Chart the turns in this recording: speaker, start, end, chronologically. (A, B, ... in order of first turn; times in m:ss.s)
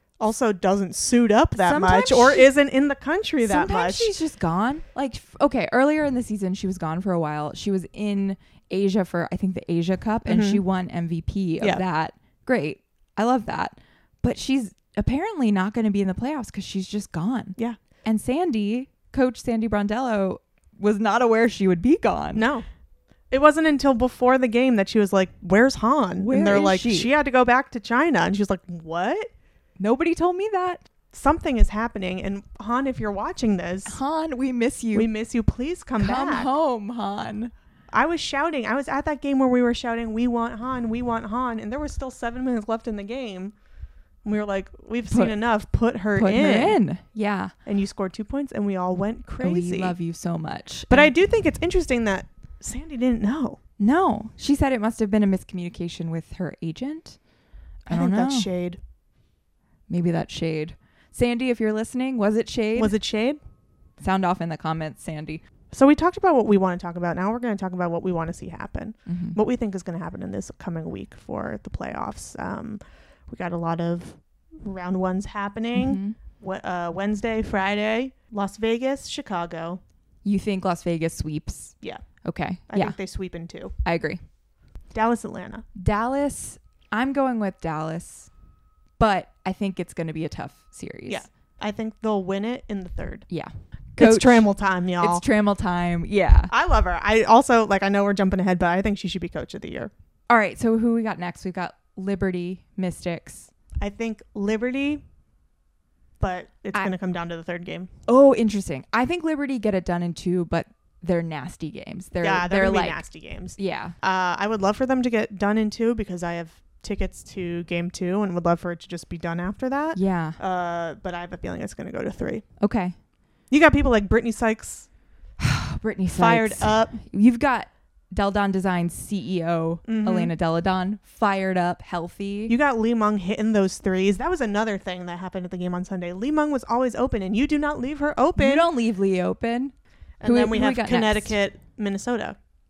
0:00.2-0:04.1 A
0:01.6-0:02.5 B
0:03.4-0:22.4 B
0:10.2-0:10.6 A
0:22.3-0:22.6 A
0:23.3-0:29.3 A
0:26.2-0:27.1 B
0:29.8-0:30.8 B
0:31.1-0:34.0 A
0:33.8-0:35.1 B
0:34.9-0:36.5 A
0:36.0-0:37.5 B
0:37.9-0:43.5 A
0:44.2-0:46.8 A
0:45.1-0:45.4 B
0:46.1-0:47.5 B
0:47.6-0:49.9 A
0:49.4-0:51.1 B
0:50.9-0:53.6 A
0:53.8-0:57.2 B
0:57.9-0:58.5 B
0:57.9-0:58.8 A
0:59.9-1:03.0 B
1:02.8-1:03.4 A
1:04.0-1:05.4 B
1:05.7-1:19.8 A
1:09.1-1:09.4 B
1:15.7-1:16.2 B
1:20.2-1:23.0 B
1:22.7-1:23.7 A
1:23.8-1:24.2 B
1:24.9-1:25.6 A
1:25.8-1:28.3 B
1:29.0-1:31.2 B
1:31.1-1:33.2 A
1:33.3-1:36.5 B
1:34.0-1:35.2 A
1:36.5-1:39.9 A
1:40.3-1:43.5 B
1:43.8-1:45.0 A
1:46.2-1:47.9 A
1:48.1-1:54.0 B
1:52.2-2:02.4 A
1:59.9-2:00.4 B
2:02.6-2:02.9 B
2:03.5-2:04.9 A
2:05.4-2:12.5 B
2:06.1-2:07.0 A
2:09.8-2:10.3 A
2:12.5-2:18.7 A
2:18.4-2:21.4 B
2:20.2-2:22.4 A